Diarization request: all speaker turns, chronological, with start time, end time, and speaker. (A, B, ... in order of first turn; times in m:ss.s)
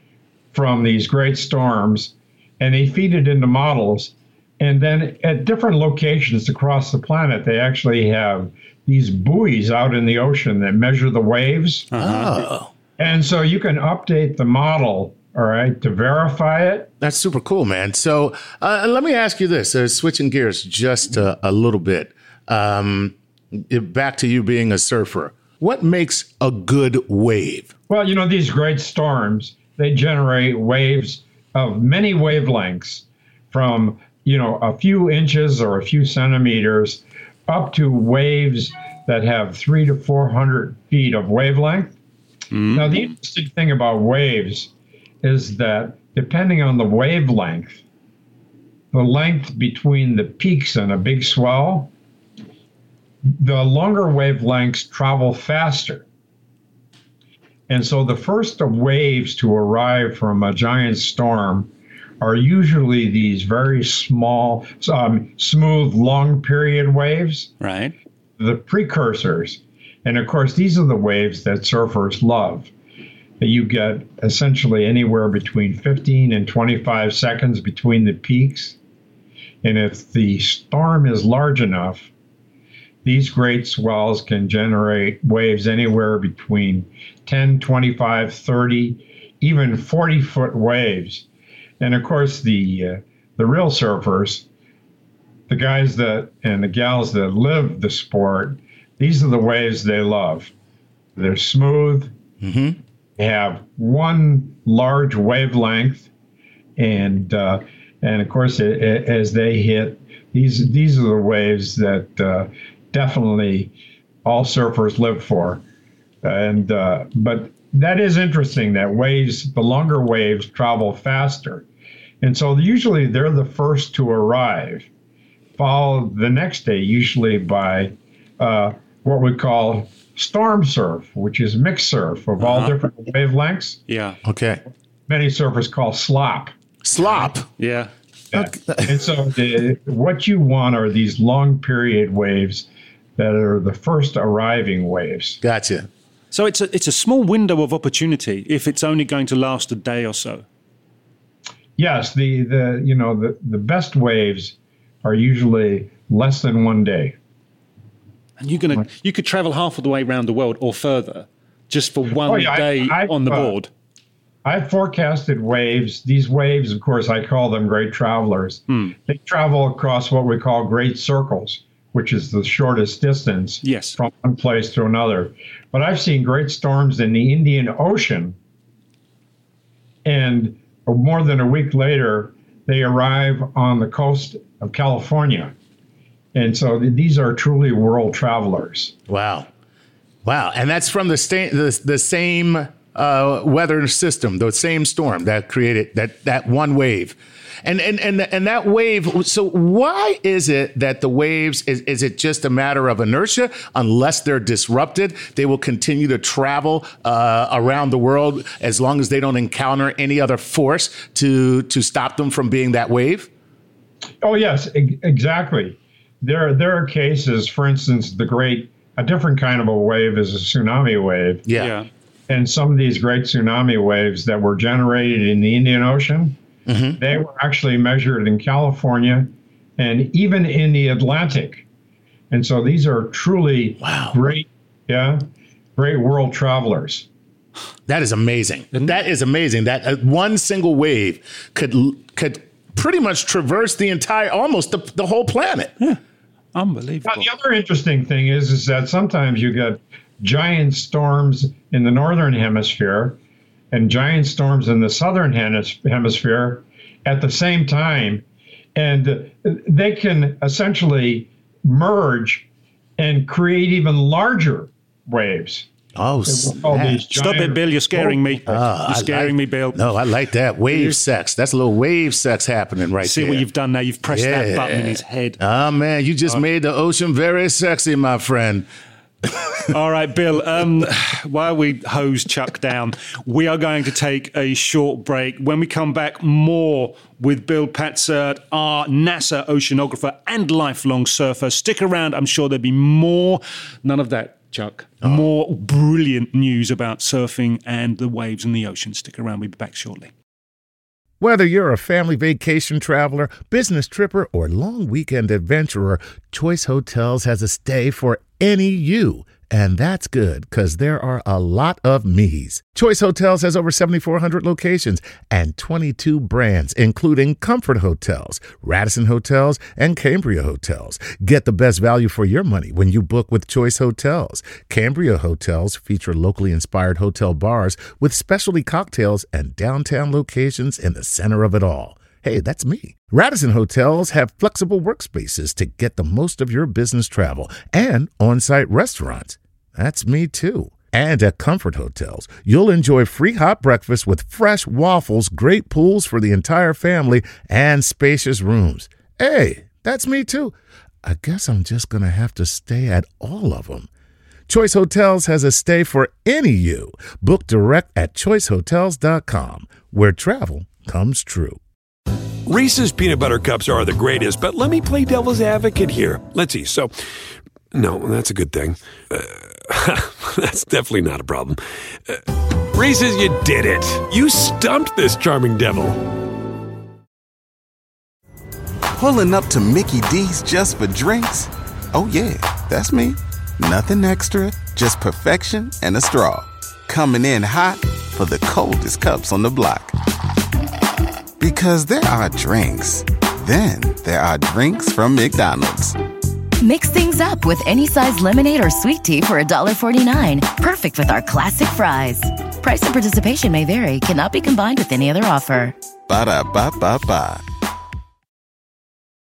0:00.5-0:11.9 A
0:11.9-0:12.3 B
0:11.9-0:12.7 C
0:13.0-0:16.9 A
0:17.0-0:27.7 C
0:27.9-0:41.9 A
0:42.5-0:43.1 B
0:42.7-0:44.7 A
0:45.2-0:47.8 A
0:48.9-0:51.9 A
0:53.4-0:56.0 A
0:57.7-1:01.7 A
1:02.2-1:07.5 A
1:07.6-1:07.9 B
1:08.4-1:12.7 A
1:13.4-1:18.8 A
1:19.6-1:22.1 A
1:23.0-1:31.2 A
1:31.8-1:34.4 A
1:35.5-1:40.5 A
1:41.2-1:42.1 A
1:42.4-1:42.8 C
1:43.2-1:46.1 A
1:46.8-1:53.7 A
1:54.2-1:55.6 A
1:56.2-2:01.6 A
2:02.2-2:04.9 A
2:05.6-2:13.8 A
2:12.4-2:12.7 B
2:13.9-2:14.2 B
2:14.2-2:14.6 C
2:15.1-2:16.5 A
2:16.8-2:17.5 C
2:17.6-2:17.9 B
2:18.3-2:19.0 C
2:18.3-2:22.7 A
2:23.2-2:25.4 A
2:25.4-2:25.9 C
2:26.3-2:30.4 B
2:31.8-2:37.1 A
2:38.4-2:43.7 B
2:42.2-2:43.5 A
2:44.4-2:58.4 A
2:53.6-2:54.0 B
3:00.0-3:05.5 A
3:06.3-3:08.9 A
3:09.1-3:09.5 C
3:10.2-3:33.3 C
3:34.2-3:41.4 A
3:41.4-3:41.7 C
3:41.6-3:41.9 B
3:42.3-3:46.4 A
3:46.7-3:47.0 C
3:47.0-3:51.6 A
3:52.3-3:55.2 A
3:53.8-3:54.2 C
3:55.8-3:57.0 A
3:57.9-4:05.7 C
3:58.7-3:59.0 B
4:06.5-4:07.3 B
4:07.0-4:13.2 A
4:13.7-4:18.2 A
4:18.7-4:22.4 A
4:23.0-4:25.7 A
4:25.9-4:27.0 C
4:26.2-4:28.6 A
4:27.1-4:29.8 B
4:28.5-4:33.4 C
4:33.0-4:35.4 B
4:34.1-4:38.7 C
4:39.3-4:39.6 C
4:39.7-5:00.1 B
5:01.2-5:53.9 C
5:54.5-6:01.6 C
6:02.4-6:07.1 D
6:07.7-6:16.2 D
6:19.0-6:30.0 E
6:31.4-6:35.9 E
6:36.6-6:45.7 F
6:46.1-6:47.4 E